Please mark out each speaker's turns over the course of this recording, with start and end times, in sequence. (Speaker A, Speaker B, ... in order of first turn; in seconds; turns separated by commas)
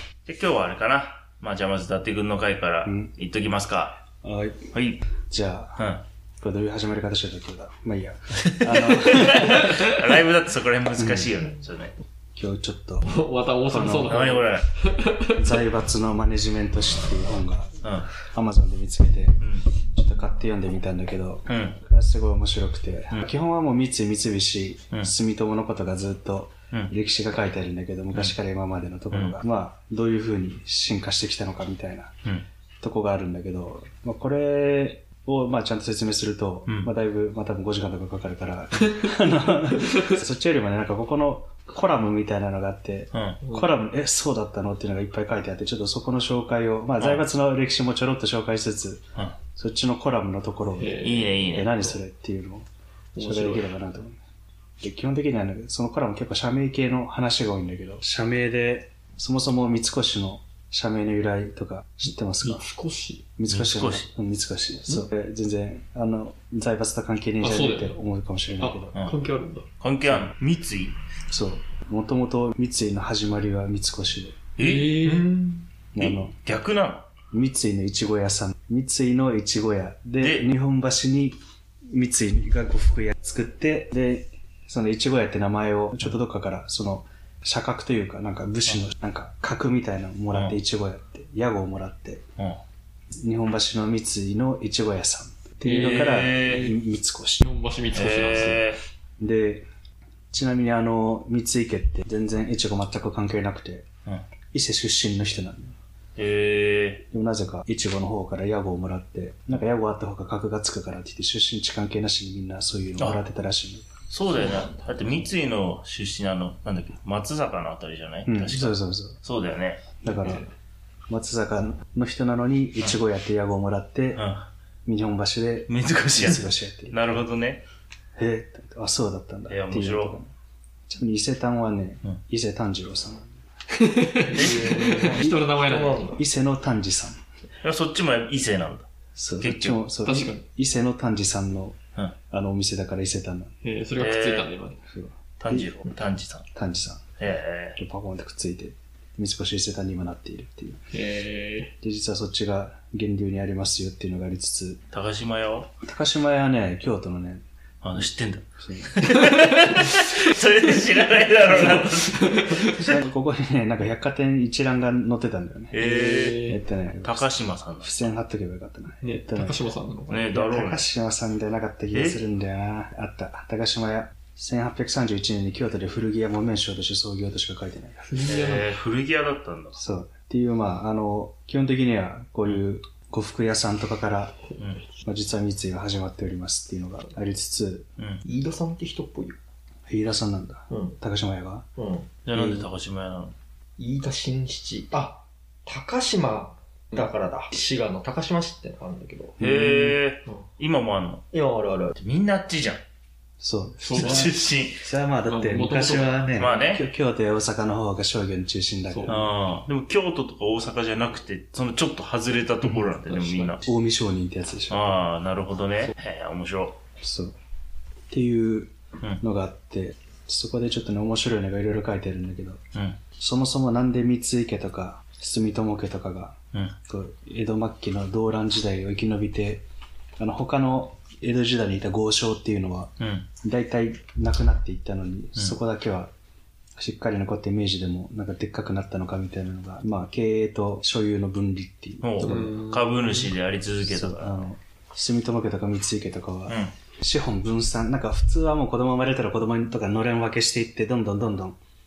Speaker A: 0.2-4.0, Speaker B: 2.9-3.1, Speaker B: 4.2-4.7, Speaker A: 4.7-5.0, Speaker B: 5.3-5.8, Speaker A: 5.8-6.0, Speaker B: 6.4-9.8, Speaker A: 8.9-11.9, Speaker B: 11.0-11.4, Speaker B: 12.3-13.1, Speaker C: 13.0-15.4, Speaker B: 13.7-14.4, Speaker A: 14.1-14.7, Speaker B: 15.3-19.4, Speaker A: 17.8-18.1, Speaker A: 19.4-19.7, Speaker B: 19.9-32.2, Speaker A: 21.5-21.8, Speaker A: 29.1-29.4, Speaker B: 32.8-52.7, Speaker A: 36.7-36.9, Speaker A: 43.1-43.4, Speaker C: 43.4-43.8, Speaker A: 47.0-47.3, Speaker C: 50.8-51.4, Speaker A: 51.0-51.9, Speaker C: 53.1-53.7, Speaker B: 53.2-54.2, Speaker B: 54.8-62.6, Speaker C: 62.4-63.3, Speaker B: 63.4-69.0, Speaker A: 63.5-64.1, Speaker C: 67.4-68.0, Speaker C: 68.6-69.7, Speaker A: 69.8-71.0, Speaker B: 71.3-74.4, Speaker A: 74.6-75.2, Speaker C: 74.6-75.7, Speaker B: 75.9-76.4, Speaker A: 76.0-77.1, Speaker B: 77.3-81.4, Speaker A: 80.2-80.5, Speaker B: 81.9-92.2, Speaker A: 90.3-90.6, Speaker B: 93.2-97.5, Speaker C: 95.7-96.8, Speaker A: 95.7-96.7, Speaker C: 97.4-98.7, Speaker A: 97.9-98.8, Speaker B: 99.2-99.7, Speaker B: 100.3-103.9, Speaker B: 104.5-105.8, Speaker A: 106.2-107.0, Speaker B: 107.1-113.9, Speaker A: 113.0-113.3, Speaker A: 114.1-119.8, Speaker B: 118.3-119.2, Speaker B: 120.0-120.5, Speaker B: 121.1-124.3, Speaker A: 124.2-124.5, Speaker B: 124.8-127.0, Speaker A: 125.7-127.6, Speaker B: 128.2-130.3, Speaker A: 129.5-130.2, Speaker B: 130.9-133.3, Speaker C: 133.7-136.1, Speaker A: 134.3-135.2, Speaker D: 134.4-134.9, Speaker B: 134.6-137.2, Speaker D: 135.7-136.2, Speaker A: 137.6-138.9, Speaker B: 139.2-141.8, Speaker A: 139.4-139.8, Speaker C: 140.0-140.5, Speaker B: 142.3-143.5, Speaker C: 143.6-144.8, Speaker A: 144.0-144.5, Speaker B: 144.9-145.9, Speaker A: 145.4-146.5, Speaker B: 146.5-147.0, Speaker A: 147.2-147.8, Speaker B: 147.8-150.8, Speaker C: 150.9-151.7, Speaker B: 151.8-154.8, Speaker A: 154.9-155.7, Speaker B: 155.8-157.4, Speaker A: 157.8-163.0, Speaker B: 158.6-159.2, Speaker C: 161.5-162.9, Speaker B: 162.7-165.8, Speaker A: 165.7-166.4, Speaker C: 165.8-166.6, Speaker B: 166.4-169.6, Speaker A: 167.0-168.1, Speaker C: 169.0-170.5, Speaker A: 170.1-170.9, Speaker B: 170.3-178.2, Speaker A: 171.9-172.2, Speaker C: 178.1-178.7, Speaker A: 178.2-179.8, Speaker B: 179.8-184.4, Speaker A: 184.6-184.8, Speaker B: 185.0-187.9, Speaker D: 188.2-189.4, Speaker B: 189.9-191.7, Speaker D: 190.7-191.0, Speaker D: 191.8-192.7, Speaker A: 192.3-193.3, Speaker D: 193.8-199.4, Speaker A: 199.4-201.2, Speaker B: 199.4-200.0, Speaker D: 201.3-202.0, Speaker A: 201.9-202.8, Speaker B: 203.4-209.3, Speaker C: 203.8-204.3, Speaker A: 203.9-204.9, Speaker C: 205.3-206.3, Speaker A: 206.3-206.9, Speaker C: 208.9-209.2, Speaker A: 209.1-213.7, Speaker C: 213.1-213.6, Speaker B: 213.7-215.1, Speaker A: 214.7-216.8, Speaker B: 217.0-217.4, Speaker B: 218.1-222.6, Speaker B: 223.2-226.4, Speaker B: 226.9-229.7, Speaker B: 230.2-236.1, Speaker A: 233.0-233.3, Speaker B: 236.8-242.1, Speaker A: 242.0-244.5, Speaker C: 242.2-243.3, Speaker B: 243.8-251.6, Speaker A: 246.5-246.7